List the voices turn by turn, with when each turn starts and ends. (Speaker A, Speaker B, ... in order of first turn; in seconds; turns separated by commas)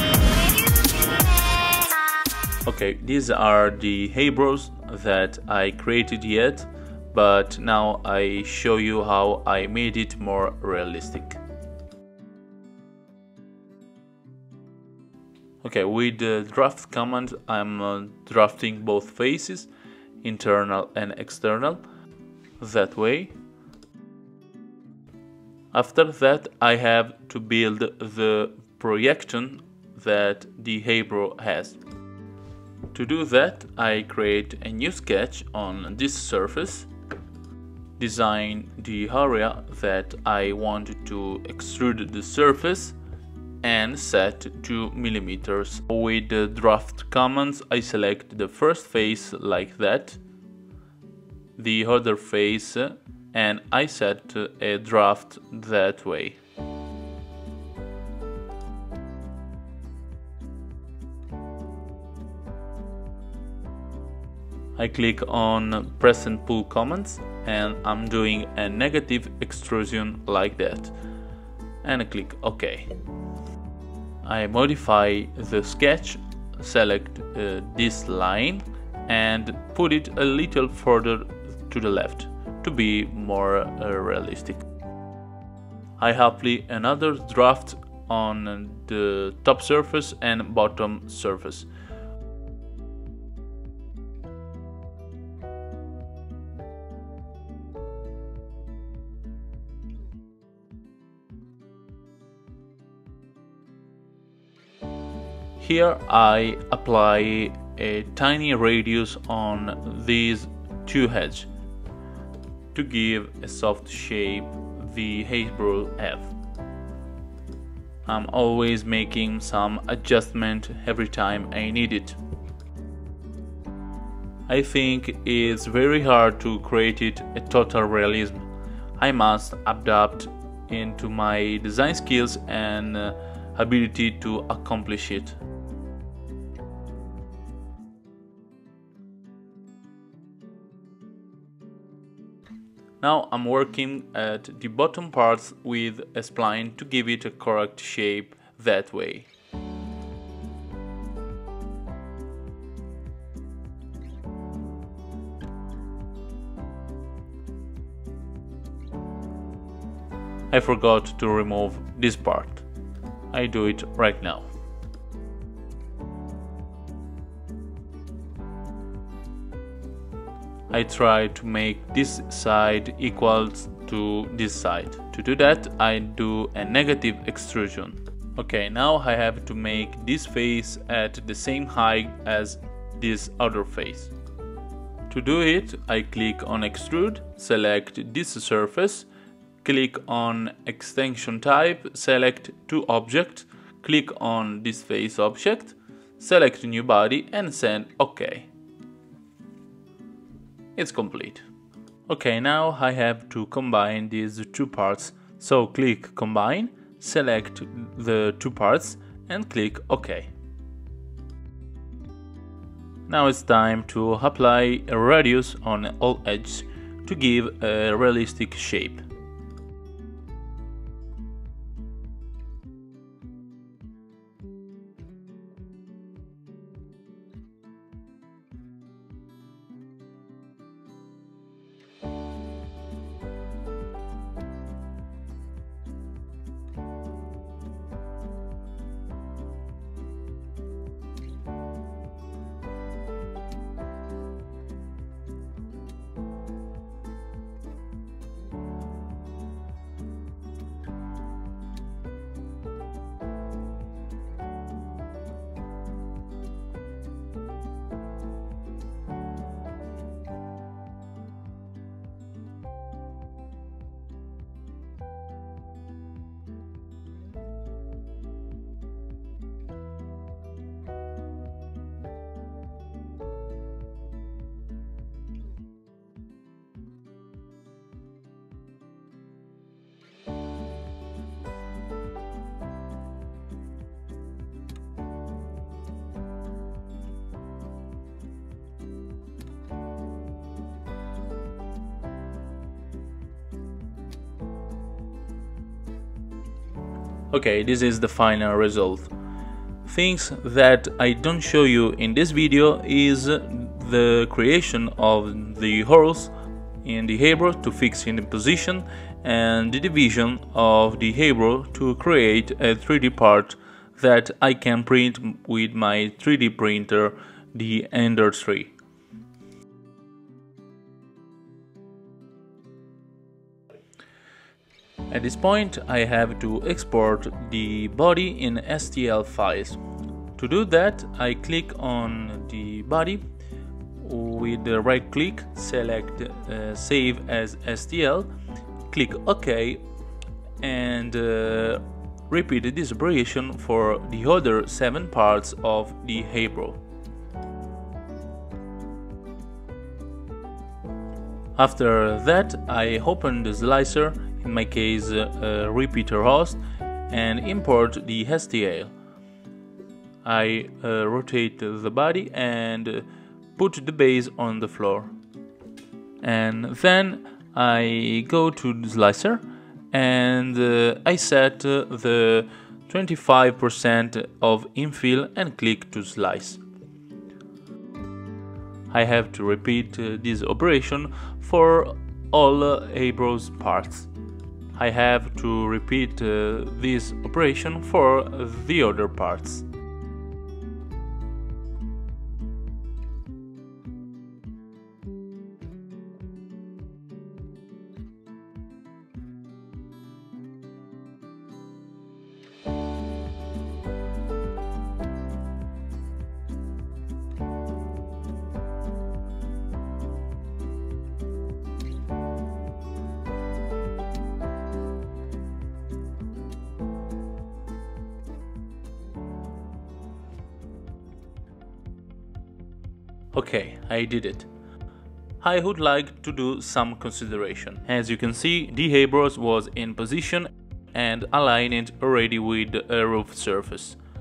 Speaker A: 2.6-11.4, Speaker A: 15.6-19.7, Speaker A: 20.2-21.8, Speaker A: 22.6-23.3, Speaker A: 25.7-31.8, Speaker A: 32.9-36.9, Speaker A: 38.0-43.0, Speaker A: 43.6-50.2, Speaker A: 51.6-56.4, Speaker A: 64.8-70.9, Speaker A: 71.8-72.9, Speaker A: 74.2-84.7, Speaker A: 86.0-91.7, Speaker A: 105.6-111.5, Speaker A: 112.7-116.3, Speaker A: 118.1-122.2, Speaker A: 124.5-135.4, Speaker A: 143.0-149.3, Speaker A: 160.5-162.7, Speaker A: 163.3-164.5, Speaker A: 170.7-184.1, Speaker A: 185.1-189.1, Speaker A: 189.6-198.5, Speaker A: 200.8-201.4, Speaker A: 202.1-210.3, Speaker A: 213.1-219.0, Speaker A: 297.3-299.1, Speaker A: 299.8-306.3, Speaker A: 306.8-318.7, Speaker A: 325.1-329.8, Speaker A: 330.4-333.2, Speaker A: 334.0-338.3, Speaker A: 338.9-339.8, Speaker A: 340.6-346.8, Speaker A: 351.6-358.9, Speaker A: 360.2-365.1, Speaker A: 366.2-376.6, Speaker A: 378.9-384.1, Speaker A: 384.8-389.6, Speaker A: 423.3-424.5, Speaker A: 425.4-434.0